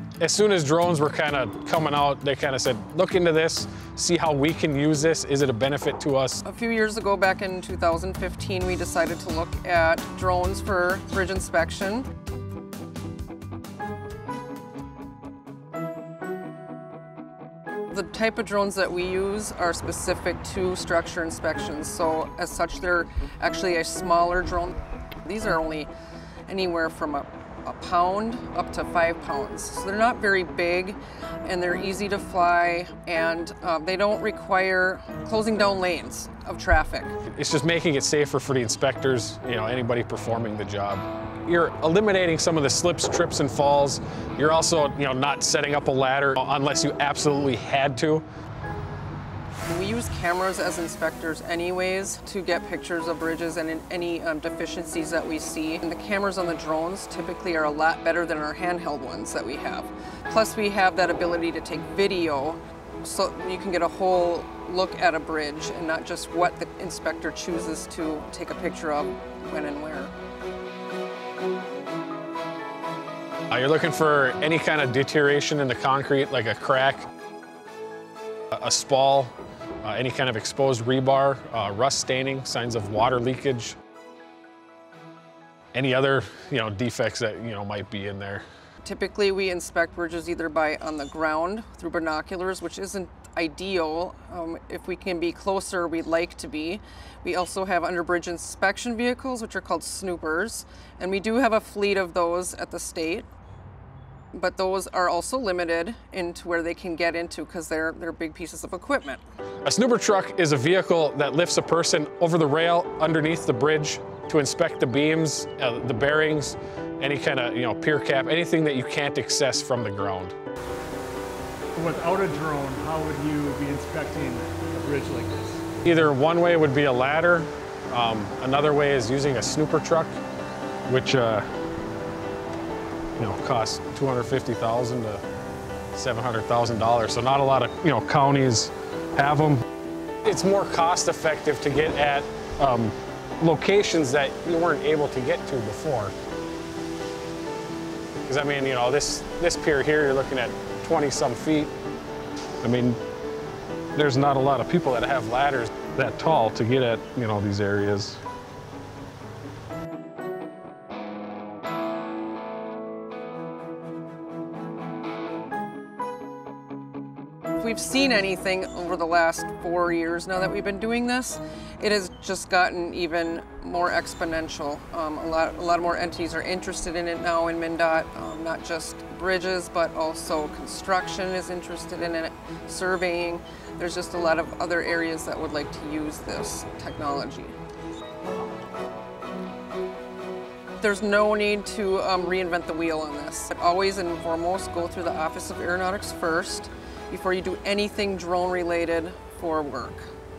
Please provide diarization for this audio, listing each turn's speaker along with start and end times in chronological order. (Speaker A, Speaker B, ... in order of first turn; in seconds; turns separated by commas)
Speaker A: 0.2-6.4, Speaker B: 6.5-12.1, Speaker B: 17.9-25.9, Speaker B: 26.5-37.2, Speaker A: 37.2-48.2, Speaker B: 49.7-70.1, Speaker A: 73.5-77.1, Speaker A: 78.5-83.8, Speaker A: 85.8-88.5, Speaker B: 88.8-103.3, Speaker B: 104.4-109.2, Speaker A: 109.7-120.3, Speaker C: 121.7-125.7, Speaker A: 125.8-130.1, Speaker A: 130.9-131.5, Speaker A: 133.2-135.2, Speaker A: 135.9-139.6, Speaker A: 140.2-146.1, Speaker A: 148.3-151.7, Speaker A: 152.6-153.0, Speaker A: 153.9-158.2, Speaker B: 167.6-187.6, Speaker B: 190.8-200.1